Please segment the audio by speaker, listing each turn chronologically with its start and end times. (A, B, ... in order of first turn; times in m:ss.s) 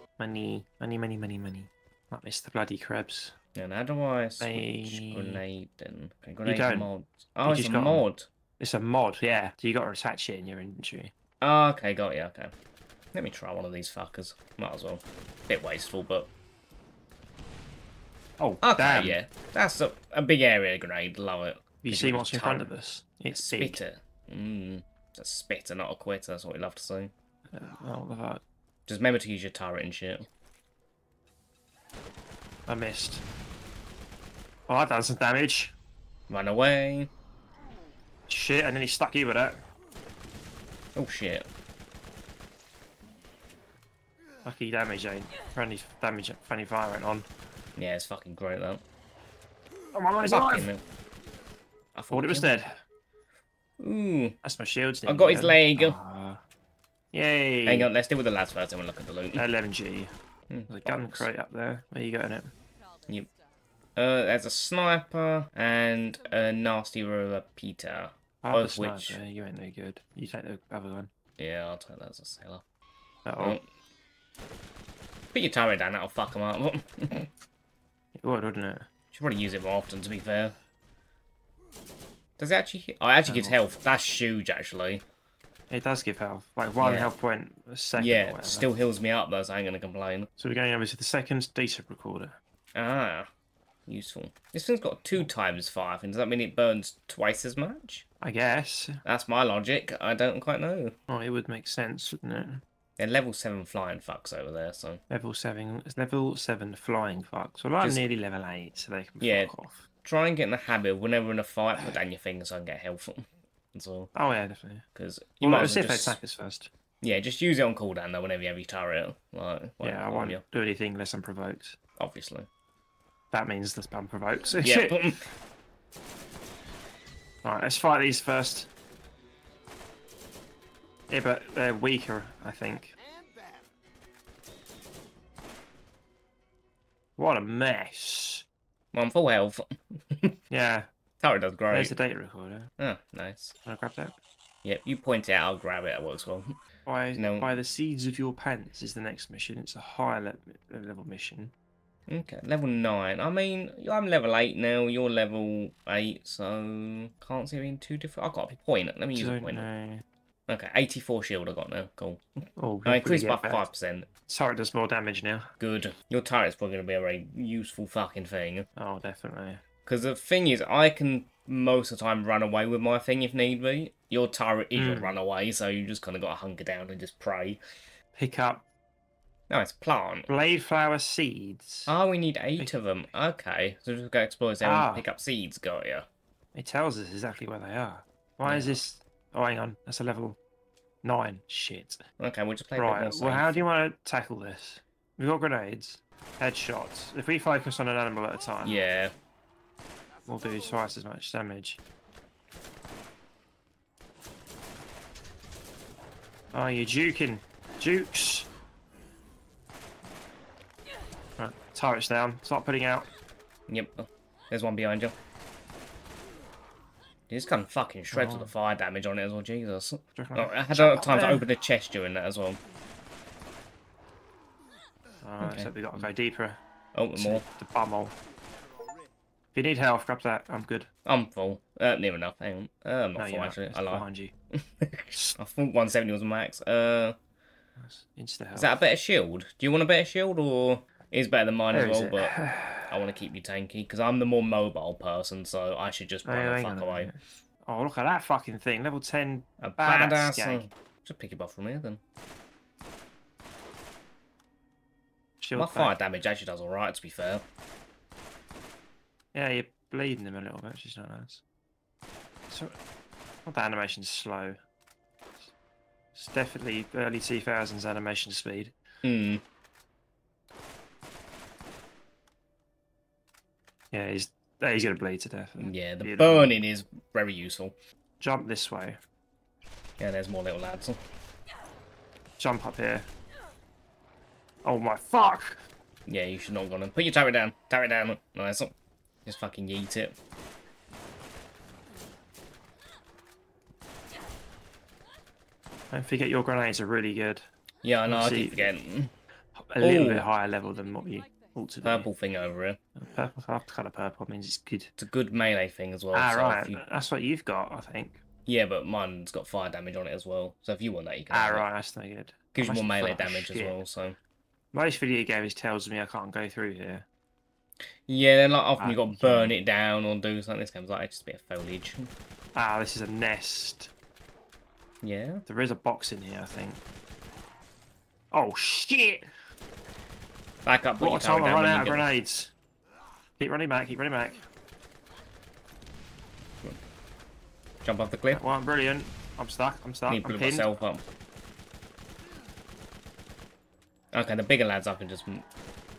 0:00.2-0:03.4 A
0:03.6-0:08.3 B
0:04.4-0:05.4 A
0:06.4-0:06.9 A
0:07.4-0:08.0 A
0:08.6-0:11.1 A
0:11.4-0:12.5 B
0:13.1-0:16.3 B
0:18.4-0:19.2 A
0:18.6-0:22.7 B
0:21.8-0:23.8 A
0:23.3-0:27.1 B
0:27.5-0:28.4 A
0:28.9-0:30.3 B
0:32.7-0:33.2 A
0:34.7-0:35.7 A
0:36.3-0:37.1 B
0:38.3-0:39.6 A
0:40.9-0:41.5 B
0:44.4-0:47.3 A
0:47.8-0:48.8 B
0:49.9-0:50.7 A
0:50.2-0:50.8 B
0:51.9-0:52.5 B
0:52.1-0:52.8 A
0:53.8-0:54.4 B
0:54.4-0:56.4 A
0:55.0-0:56.0 B
0:57.1-0:57.9 A
0:57.6-0:59.5 B
0:59.3-1:00.1 A
1:00.5-1:01.3 B
1:00.7-1:02.5 A
1:04.0-1:09.2 B
1:08.4-1:11.1 A
1:11.4-1:12.6 B
1:13.2-1:13.6 A
1:13.4-1:13.6 B
1:15.3-1:17.3 B
1:18.2-1:18.9 A
1:19.1-1:20.6 B
1:22.4-1:25.0 B
1:23.2-1:23.6 A
1:25.7-1:28.7 A
1:26.8-1:27.1 B
1:28.0-1:30.3 B
1:30.4-1:32.4 A
1:32.7-1:33.3 B
1:33.9-1:38.0 B
1:38.2-1:39.0 A
1:39.0-1:41.0 B
1:41.1-1:42.6 A
1:43.0-1:45.0 B
1:45.1-1:49.8 A
1:47.8-1:48.1 B
1:49.2-1:49.5 B
1:50.0-1:54.1 B
1:54.1-1:54.8 A
1:54.9-1:56.2 B
1:55.4-1:56.7 A
1:57.0-2:00.4 B
1:59.8-2:01.8 A
2:02.0-2:02.5 B
2:03.3-2:05.1 A
2:04.6-2:05.3 B
2:07.4-2:08.7 A
2:11.1-2:12.9 A
2:17.2-2:18.4 A
2:18.9-2:20.4 B
2:20.5-2:20.9 A
2:21.2-2:21.9 B
2:21.7-2:22.7 A
2:22.8-2:23.5 B
2:23.6-2:24.2 A
2:24.6-2:26.5 B
2:26.8-2:31.5 A
2:27.1-2:27.6 B
2:32.1-2:39.7 B
2:39.1-2:40.0 A
2:40.5-2:42.3 B
2:42.6-2:43.6 A
2:42.8-2:44.1 B
2:44.3-2:45.5 A
2:45.6-2:48.7 B
2:48.8-2:49.6 A
2:49.8-2:57.6 B
2:54.7-2:55.1 A
2:58.2-2:58.6 A
2:59.5-3:00.3 B
3:00.3-3:01.9 A
3:01.9-3:06.1 B
3:04.6-3:05.0 A
3:06.5-3:10.4 A
3:08.4-3:08.8 B
3:11.0-3:12.0 A
3:12.2-3:13.6 B
3:12.8-3:18.8 A
3:18.6-3:19.1 B
3:20.3-3:21.8 A
3:26.5-3:28.5 A
3:31.4-3:33.1 A
3:33.7-3:35.2 B
3:37.3-3:42.6 B
3:38.1-3:38.5 A
3:40.2-3:41.4 A
3:45.2-3:46.6 A
3:45.4-3:45.8 B
3:46.9-3:47.4 B
3:47.1-3:48.1 A
3:49.5-3:50.9 A
3:51.0-3:57.2 B
3:53.2-3:54.3 A
3:57.8-3:58.8 A
3:58.5-4:02.3 B
4:01.7-4:02.9 A
4:02.9-4:07.1 B
4:06.2-4:10.6 A
4:09.6-4:12.0 B
4:15.4-4:15.9 A
4:15.5-4:17.4 B
4:19.3-4:21.4 A
4:22.5-4:22.8 A
4:23.4-4:24.6 A
4:26.1-4:28.7 A
4:29.0-4:29.4 B
4:33.9-4:36.5 A
4:35.6-4:37.8 B
4:38.2-4:39.0 A
4:40.0-4:41.0 B
4:42.4-4:43.1 A
4:44.6-4:45.6 A
4:46.0-4:48.7 B
4:49.2-4:50.2 B
4:55.9-4:57.4 A
4:57.8-4:59.1 B
4:58.1-4:58.7 A
4:59.5-5:02.1 A
4:59.8-5:00.3 B
5:01.8-5:02.8 B
5:03.0-5:04.9 A
5:05.0-5:06.8 B
5:06.1-5:08.2 A
5:08.4-5:11.6 B
5:11.3-5:13.8 A
5:12.5-5:14.2 B
5:14.7-5:17.0 A
5:18.1-5:22.1 B
5:18.8-5:19.5 A
5:22.5-5:23.9 A
5:25.0-5:25.4 B
5:25.5-5:26.8 A
5:28.3-5:29.3 A
5:30.6-5:32.1 B
5:31.0-5:32.5 A
5:33.4-5:34.4 A
5:37.8-5:38.4 B
5:38.3-5:40.8 A
5:40.1-5:41.0 B
5:44.1-5:45.4 B